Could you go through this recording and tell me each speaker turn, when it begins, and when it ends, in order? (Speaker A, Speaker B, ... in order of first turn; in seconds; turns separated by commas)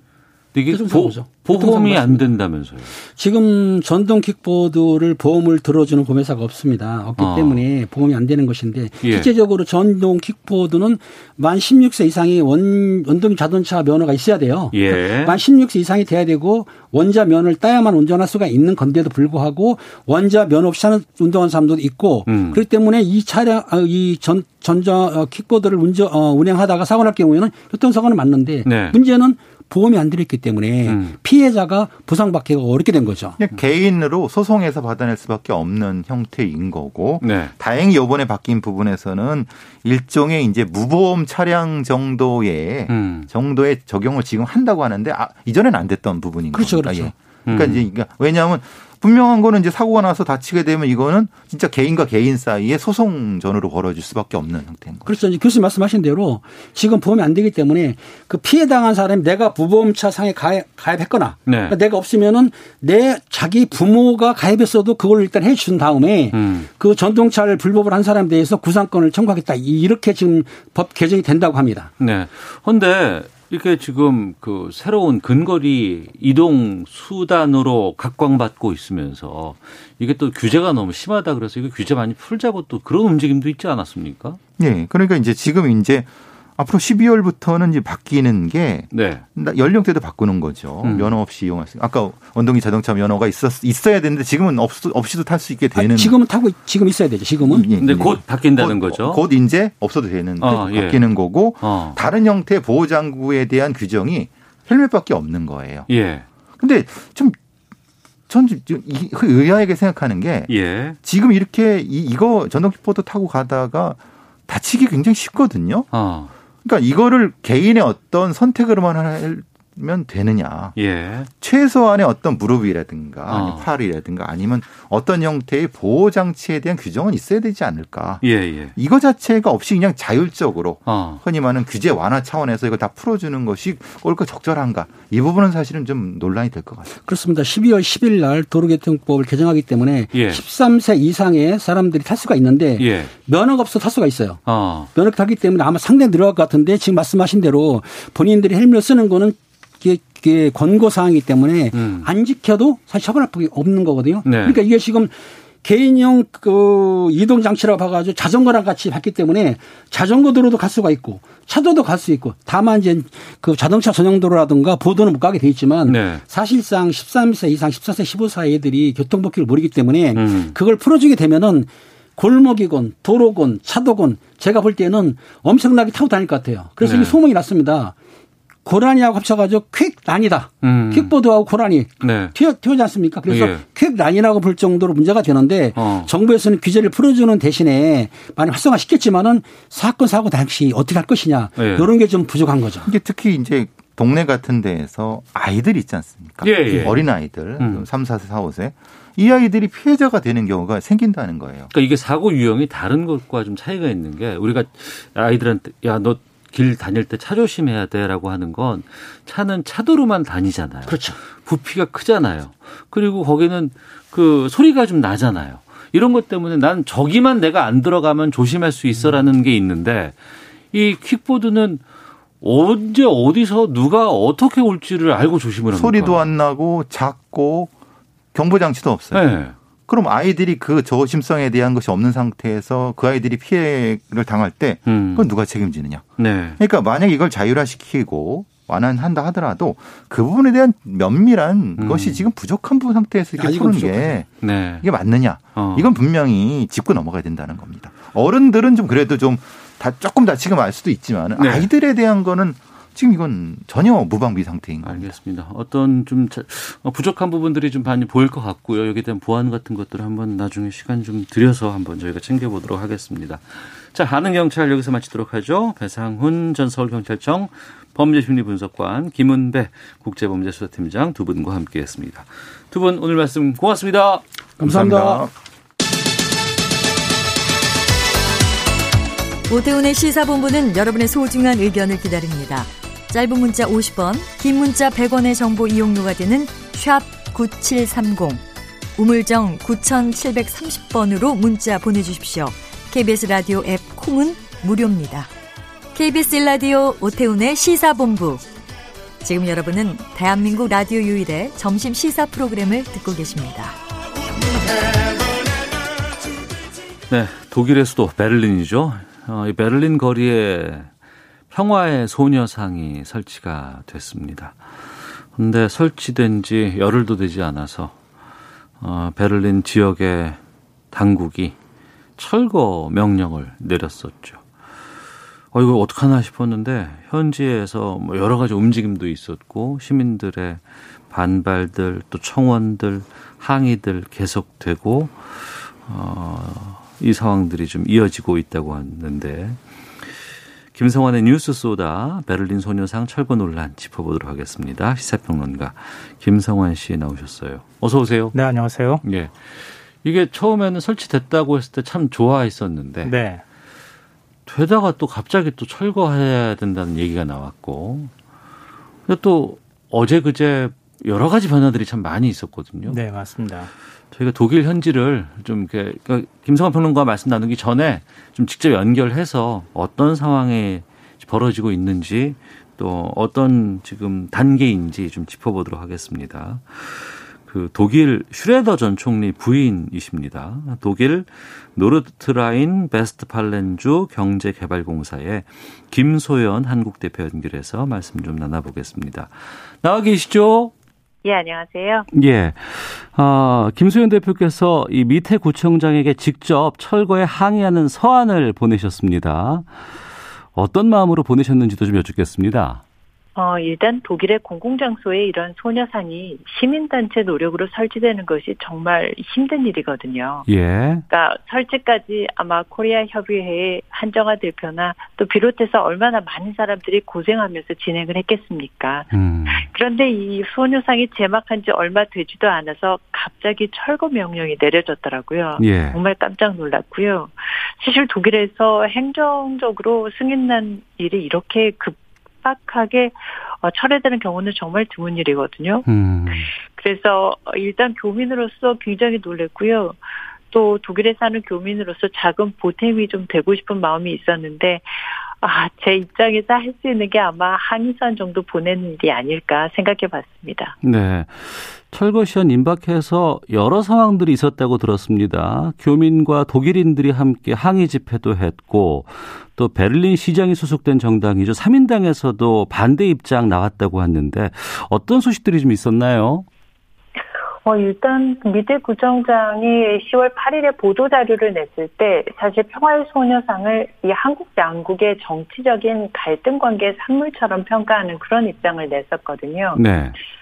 Speaker A: 0.5-2.9, Speaker B: 0.7-2.3, Speaker B: 3.2-33.4, Speaker A: 7.2-7.6, Speaker A: 9.0-9.3, Speaker A: 14.7-15.3, Speaker A: 22.3-22.6, Speaker A: 28.6-29.0, Speaker A: 30.9-31.1, Speaker C: 33.4-55.1, Speaker A: 37.2-37.5, Speaker A: 42.9-43.3, Speaker B: 46.5-47.1, Speaker A: 47.5-47.8, Speaker B: 55.1-71.9, Speaker A: 61.5-61.8, Speaker A: 66.3-66.7, Speaker A: 72.0-84.4, Speaker C: 84.6-96.2, Speaker A: 88.9-89.2, Speaker A: 90.8-91.1, Speaker B: 95.8-97.7, Speaker C: 97.4-105.9, Speaker A: 97.8-99.2, Speaker A: 100.4-101.0, Speaker A: 101.6-102.0, Speaker A: 105.9-106.3, Speaker C: 106.6-107.4, Speaker C: 108.3-115.9, Speaker A: 110.5-111.0, Speaker A: 115.9-116.3, Speaker C: 116.6-120.8, Speaker A: 120.8-121.3, Speaker C: 121.4-128.2, Speaker A: 123.3-123.7, Speaker A: 128.2-128.7, Speaker C: 128.8-136.9, Speaker A: 130.9-131.2, Speaker B: 137.1-144.4, Speaker A: 140.1-140.4, Speaker A: 142.8-143.1, Speaker A: 144.5-144.9, Speaker B: 144.9-177.9, Speaker A: 151.7-152.1, Speaker A: 154.2-154.6, Speaker A: 165.9-166.2, Speaker A: 170.2-170.6, Speaker A: 176.8-177.2, Speaker B: 178.7-192.9, Speaker A: 180.6-181.1, Speaker A: 182.0-182.3, Speaker A: 183.3-183.6, Speaker A: 185.8-186.1, Speaker A: 191.6-191.9, Speaker C: 192.9-201.7, Speaker A: 196.4-197.8, Speaker A: 201.7-220.2, Speaker B: 210.9-211.2, Speaker A: 220.7-221.8, Speaker A: 222.4-226.3, Speaker C: 225.7-227.7, Speaker C: 228.3-229.3, Speaker A: 229.1-229.5, Speaker C: 229.9-244.3, Speaker A: 234.9-235.3, Speaker A: 236.2-236.6, Speaker A: 241.8-242.2, Speaker B: 243.4-244.2, Speaker A: 244.4-244.8, Speaker C: 244.8-255.1, Speaker A: 245.6-245.9, Speaker A: 251.4-251.7, Speaker A: 254.8-274.2, Speaker B: 274.6-275.3, Speaker C: 274.6-275.3, Speaker D: 279.5-288.4, Speaker D: 289.0-295.3, Speaker D: 295.9-298.4, Speaker D: 299.2-303.8, Speaker A: 307.1-310.9, Speaker A: 311.5-314.6, Speaker A: 315.3-318.0, Speaker A: 318.8-320.4, Speaker A: 320.9-321.6, Speaker A: 322.2-324.4, Speaker A: 325.5-339.6, Speaker A: 340.7-348.3, Speaker E: 348.3-349.0, Speaker A: 349.0-353.2, Speaker E: 353.0-353.4, Speaker A: 354.5-358.1, Speaker A: 359.1-363.0, Speaker E: 362.9-363.7, Speaker A: 364.1-390.7, Speaker F: 391.2-392.1, Speaker A: 392.1-399.7, Speaker A: 400.5-402.8, Speaker F: 403.4-410.5, Speaker A: 410.5-411.0, Speaker F: 411.1-440.0, Speaker A: 419.1-419.7, Speaker A: 425.6-426.0, Speaker A: 435.9-436.5, Speaker F: 440.5-444.9, Speaker F: 445.4-450.8, Speaker A: 450.8-466.5, Speaker F: 467.6-479.8, Speaker A: 479.8-480.2